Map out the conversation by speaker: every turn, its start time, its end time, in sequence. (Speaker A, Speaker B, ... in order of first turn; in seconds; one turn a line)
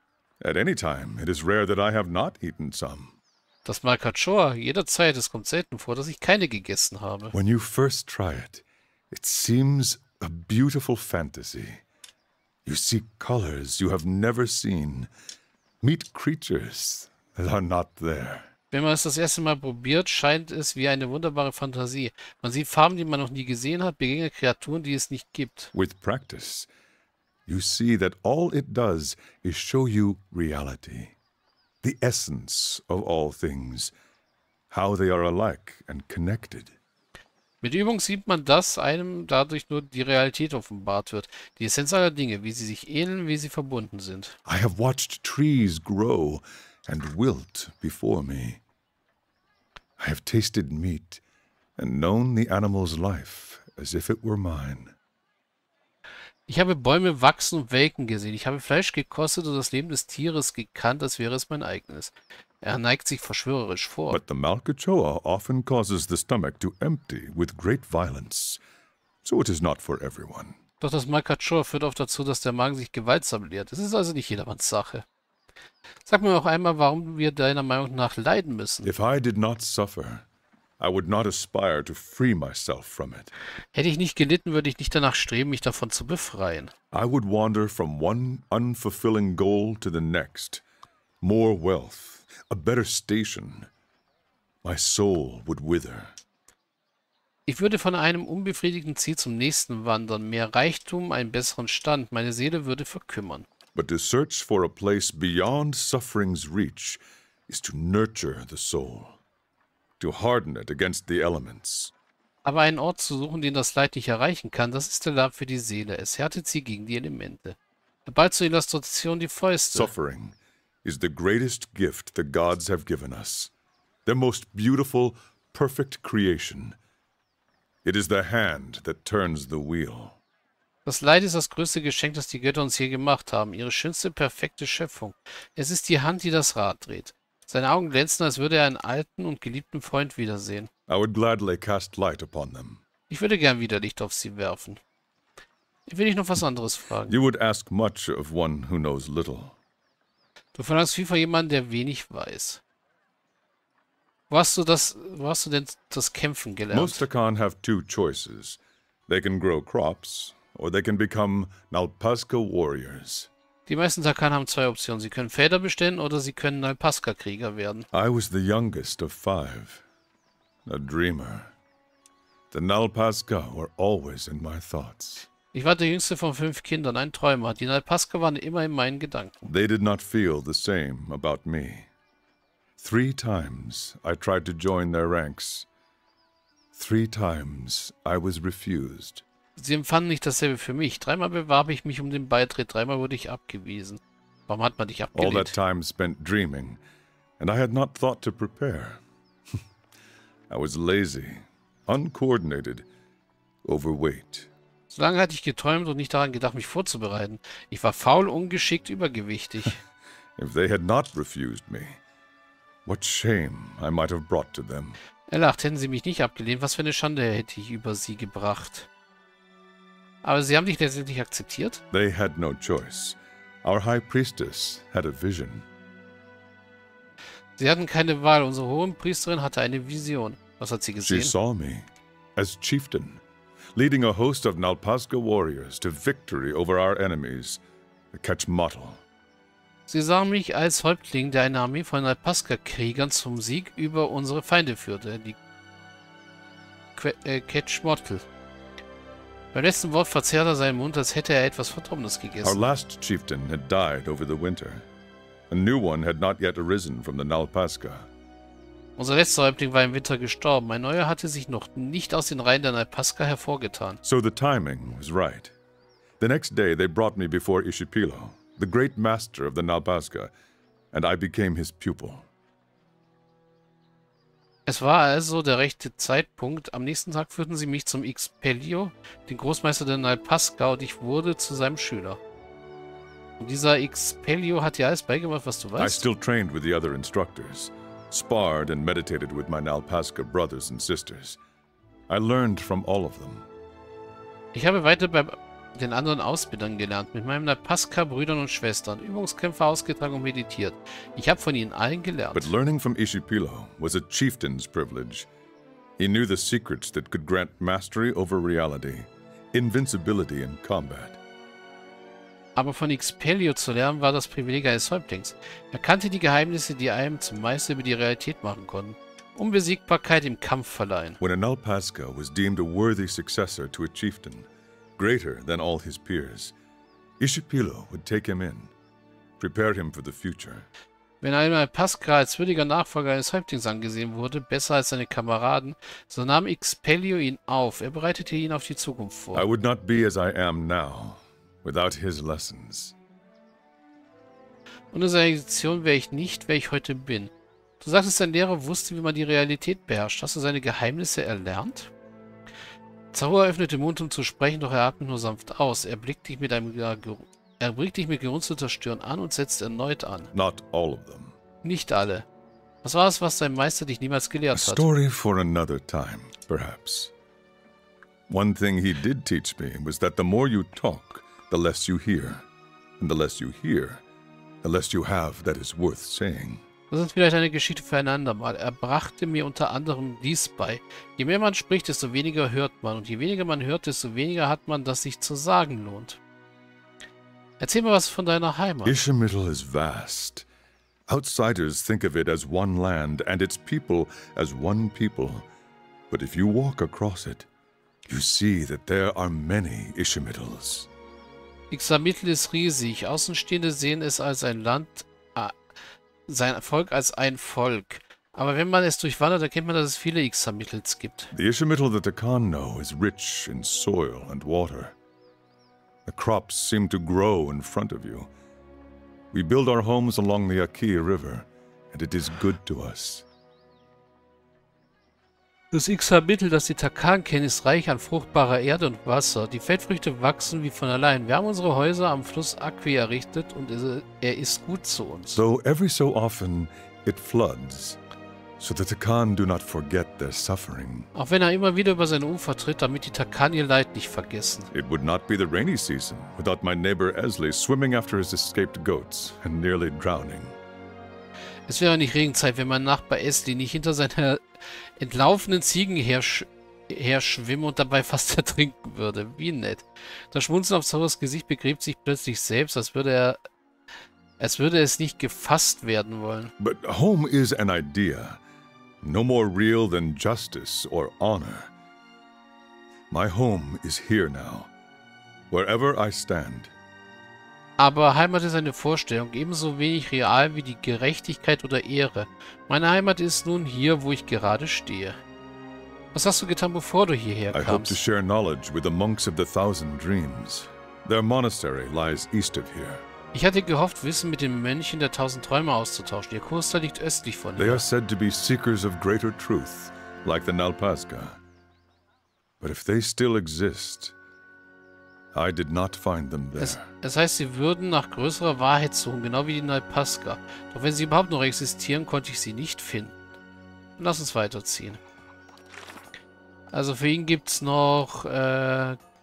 Speaker A: 0.4-3.2
Speaker B: 3.6-7.3
Speaker A: 7.3-11.8
Speaker A: 12.7-15.1
Speaker A: 15.8-18.5
Speaker B: 18.7-25.7
Speaker A: 25.7-26.7
Speaker A: 27.5-31.1
Speaker A: 31.8-33.9
Speaker A: 34.7-36.7
Speaker B: 37.6-44.4
Speaker A: 44.5-48.6
Speaker A: 50.0-51.2
Speaker A: 51.8-55.0
Speaker B: 56.5-64.2
Speaker A: 64.1-68.6
Speaker A: 69.2-70.6
Speaker B: 70.8-75.0
Speaker B: 76.0-78.9
Speaker A: 78.8-80.2
Speaker A: 80.8-83.3
Speaker B: 83.7-86.7
Speaker A: 86.9-90.6
Speaker A: 91.2-93.7
Speaker A: 94.6-96.1
Speaker B: 97.5-103.5
Speaker A: 103.7-109.2
Speaker A: 110.0-111.9
Speaker B: 112.4-119.9
Speaker A: 119.7-123.5
Speaker A: 124.0-126.8
Speaker A: 127.8-130.2
Speaker B: 130.8-140.7
Speaker A: 140.9-142.8
Speaker B: 143.1-144.8
Speaker B: 145.9-147.2
Speaker A: 147.1-149.6
Speaker B: 150.5-152.6
Speaker B: 154.3-157.0
Speaker A: 156.7-163.3
Speaker B: 163.7-167.9
Speaker A: 167.9-169.8
Speaker A: 170.7-171.5
Speaker A: 172.5-175.3
Speaker B: 175.5-179.5
Speaker A: 179.4-181.9
Speaker A: 182.8-185.7
Speaker A: 186.7-189.2
Speaker B: 189.6-195.5
Speaker A: 195.1-196.8
Speaker A: 197.4-199.0
Speaker A: 200.5-202.9
Speaker A: 203.6-204.5
Speaker B: 204.9-209.8
Speaker A: 210.4-212.0
Speaker A: 212.8-215.0
Speaker B: 215.3-218.9
Speaker B: 220.2-221.8
Speaker A: 221.9-225.7
Speaker B: 227.6-231.3
Speaker A: 231.0-233.2
Speaker A: 233.8-237.6
Speaker A: 238.1-239.0
Speaker B: 239.9-245.3
Speaker B: 246.9-248.2
Speaker B: 249.5-252.6
Speaker A: 252.4-254.8
Speaker A: 255.5-258.1
Speaker B: 259.0-264.0
Speaker A: 264.0-265.5
Speaker A: 266.2-270.3
Speaker A: 270.9-272.3
Speaker B: 274.6-282.2
Speaker B: 283.4-286.0
Speaker A: 285.8-291.4
Speaker A: 292.1-293.5
Speaker B: 294.5-302.5
Speaker A: 302.3-305.3
Speaker A: 306.0-311.2
Speaker B: 312.6-321.2
Speaker A: 321.2-326.5
Speaker A: 327.2-328.7
Speaker A: 329.4-330.7
Speaker B: 331.2-339.5
Speaker A: 339.3-342.9
Speaker B: 344.9-351.9
Speaker B: 353.1-360.3
Speaker A: 360.3-361.4
Speaker B: 361.6-362.2
Speaker B: 362.8-364.9
Speaker A: 364.5-367.1
Speaker A: 368.3-372.4
Speaker A: 373.0-374.0
Speaker A: 374.6-376.6
Speaker B: 376.9-386.2
Speaker B: 387.6-389.0
Speaker A: 388.8-390.5
Speaker A: 391.1-395.5
Speaker A: 396.1-397.5
Speaker A: 398.1-400.9
Speaker B: 401.7-405.6
Speaker B: 406.3-411.3
Speaker A: 411.3-414.9
Speaker A: 416.1-418.3
Speaker A: 419.3-423.2
Speaker B: 425.7-435.4
Speaker A: 435.3-438.0
Speaker A: 438.6-441.1
Speaker B: 441.1-444.7
Speaker A: 444.7-450.6
Speaker B: 451.7-463.4
Speaker B: 464.4-466.5
Speaker A: 466.6-468.4
Speaker A: 469.0-471.7
Speaker A: 473.1-474.7
Speaker A: 475.5-476.7
Speaker B: 477.8-485.2
Speaker B: 486.1-488.0
Speaker A: 487.5-493.0
Speaker B: 493.3-497.8
Speaker A: 497.6-501.4
Speaker A: 502.6-504.1
Speaker A: 505.3-506.9
Speaker B: 506.6-513.2
Speaker B: 514.0-515.0
Speaker B: 516.7-519.0